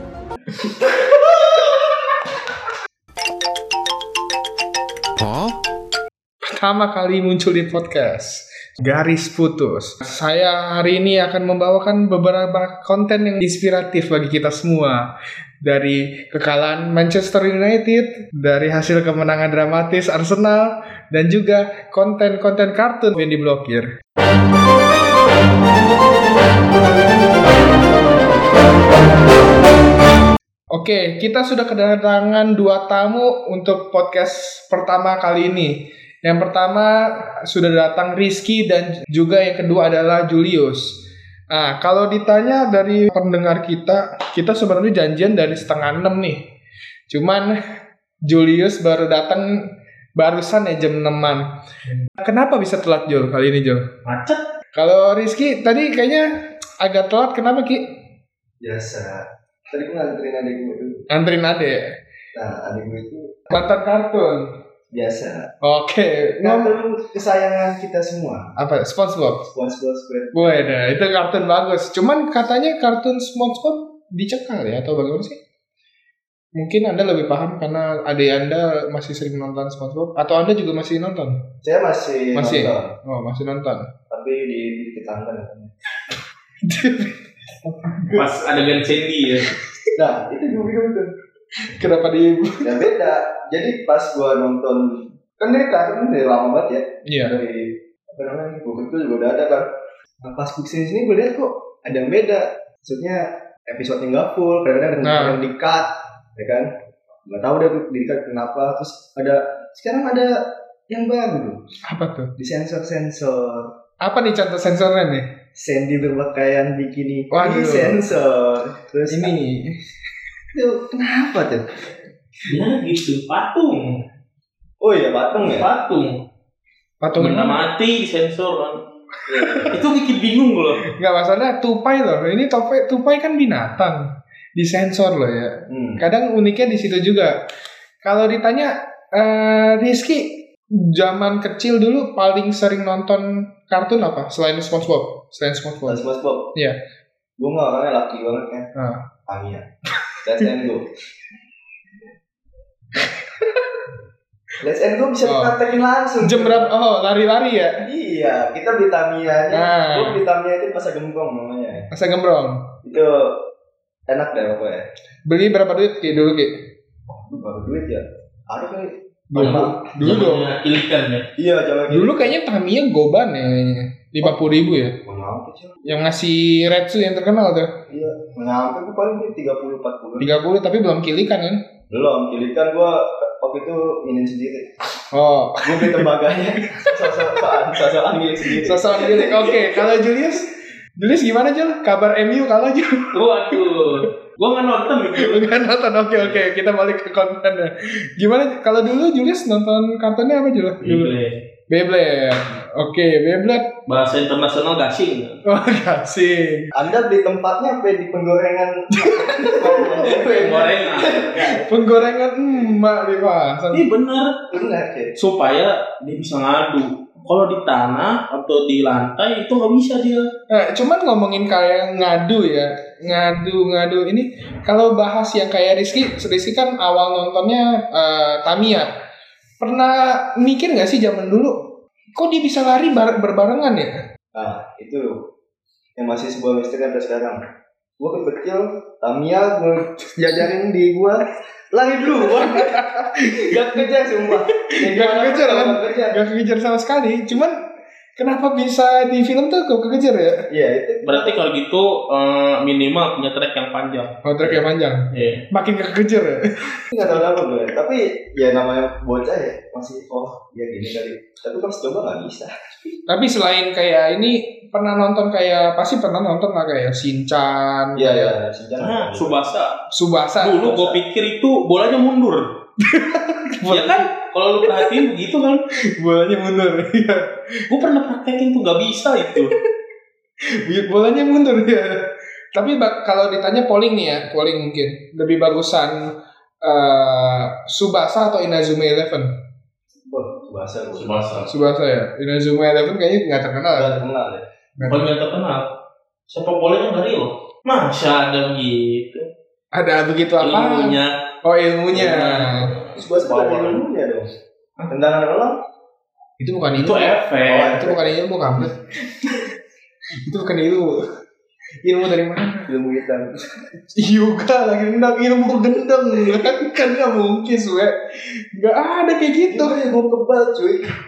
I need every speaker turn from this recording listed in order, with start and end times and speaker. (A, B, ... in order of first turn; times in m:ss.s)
0:06.4-0:15.0 A
0:15.6-0:23.9 A
0:30.7-0:35.7 A
0:36.2-0:36.9 A
0:37.5-0:40.9 A
0:41.5-0:46.4 A
0:47.1-0:47.5 A
0:48.2-0:49.4 A
0:50.2-0:51.4 A
0:52.2-0:53.8 A
0:54.0-0:54.4 B
0:54.7-0:56.2 A
0:56.8-0:57.8 A
0:58.6-1:01.0 C
1:01.1-1:01.8 A
1:02.3-1:03.6 C
1:03.5-1:04.5 A
1:04.9-1:05.4 C
1:05.6-1:06.8 A
1:06.4-1:08.5 C
1:08.6-1:09.5 A
1:09.5-1:10.8 C
1:10.3-1:15.4 A
1:16.6-1:21.4 A
1:21.6-1:22.9 C
1:22.3-1:23.9 A
1:24.1-1:25.7 C
1:26.6-1:28.3 A
1:28.1-1:29.5 B
1:29.4-1:29.9 A
1:30.0-1:31.1 C
1:31.8-1:32.9 A
1:32.6-1:39.7 C
1:37.1-1:37.4 A
1:40.2-1:46.7 C
1:45.0-1:45.4 A
1:47.2-1:50.3 C
1:50.9-1:51.6 C
1:51.9-1:52.3 A
1:52.4-1:53.7 C
1:54.0-1:55.2 A
1:55.6-1:59.3 C
1:57.3-1:58.0 A
1:59.1-1:59.7 A
2:00.5-2:01.8 C
2:02.5-2:04.0 B
2:04.8-2:05.7 C
2:05.4-2:06.2 B
2:07.0-2:07.6 A
2:07.1-2:08.8 B
2:09.3-2:09.7 C
2:09.3-2:09.8 A
2:09.7-2:10.8 B
2:10.8-2:14.0 A
2:14.6-2:17.4 A
2:15.7-2:16.0 C
2:18.0-2:26.8 A
2:25.8-2:26.5 C
2:27.4-2:28.6 C
2:28.8-2:29.0 A
2:29.3-2:29.6 C
2:30.2-2:30.9 C
2:33.0-2:33.8 A
2:34.6-2:36.7 C
2:35.2-2:35.6 A
2:36.2-2:37.8 A
2:37.8-2:41.9 C
2:39.5-2:40.2 A
2:41.9-2:42.6 A
2:42.8-2:43.3 C
2:44.1-2:44.8 C
2:45.3-2:46.5 A
2:47.1-2:49.9 C
2:49.3-2:50.5 A
2:49.3-2:51.2 B
2:51.4-2:52.3 C
2:51.9-2:54.9 A
2:54.2-2:56.0 C
2:55.8-2:57.7 A
2:57.9-3:00.3 C
3:00.2-3:01.6 A
3:01.9-3:04.7 C
3:05.1-3:07.6 A
3:05.6-3:09.9 C
3:08.4-3:14.0 A
3:13.1-3:16.4 B
3:15.2-3:21.2 A
3:20.8-3:21.4 B
3:21.7-3:23.7 A
3:23.9-3:25.4 B
3:25.4-3:26.7 A
3:26.7-3:32.8 C
3:28.9-3:30.8 A
3:30.0-3:31.5 B
3:31.4-3:33.8 A
3:33.7-3:34.3 B
3:34.5-3:35.1 C
3:35.2-3:40.2 B
3:40.5-3:48.9 A
3:49.6-3:51.5 A
3:52.1-3:53.9 A
3:54.3-3:55.2 C
3:56.0-3:57.4 C
3:58.0-4:06.2 C
4:02.2-4:03.8 A
4:04.7-4:07.5 A
4:08.2-4:10.4 A
4:10.5-4:11.4 C
4:11.0-4:14.1 B
4:14.2-4:17.4 A
4:15.1-4:15.4 B
4:16.9-4:22.5 C
4:23.1-4:28.4 A
4:28.0-4:29.4 C
4:28.8-4:29.7 B
4:29.9-4:30.7 A
4:30.4-4:32.4 B
4:30.6-4:31.0 C
4:32.8-4:34.1 A
4:33.7-4:35.6 B
4:34.6-4:35.1 A
4:36.0-4:37.2 A
4:37.7-4:39.5 B
4:39.2-4:39.6 A
4:40.6-4:42.0 A
4:42.5-4:46.0 A
4:46.6-4:49.3 A
4:50.1-4:51.5 C
4:51.0-4:51.5 B
4:51.5-4:54.0 A
4:53.7-4:54.4 C
4:54.8-4:55.0 A
4:54.8-4:55.7 B
4:56.3-4:59.2 B
4:59.7-5:02.7 A
5:00.4-5:01.2 B
5:01.9-5:03.8 B
5:02.9-5:04.3 C
5:04.9-5:05.6 C
5:06.4-5:09.5 A
5:06.7-5:07.8 B
5:07.4-5:08.1 C
5:10.2-5:11.0 A
5:11.8-5:12.7 A
5:12.7-5:13.5 C
5:13.9-5:17.9 A
5:18.6-5:19.8 A
5:19.5-5:20.9 C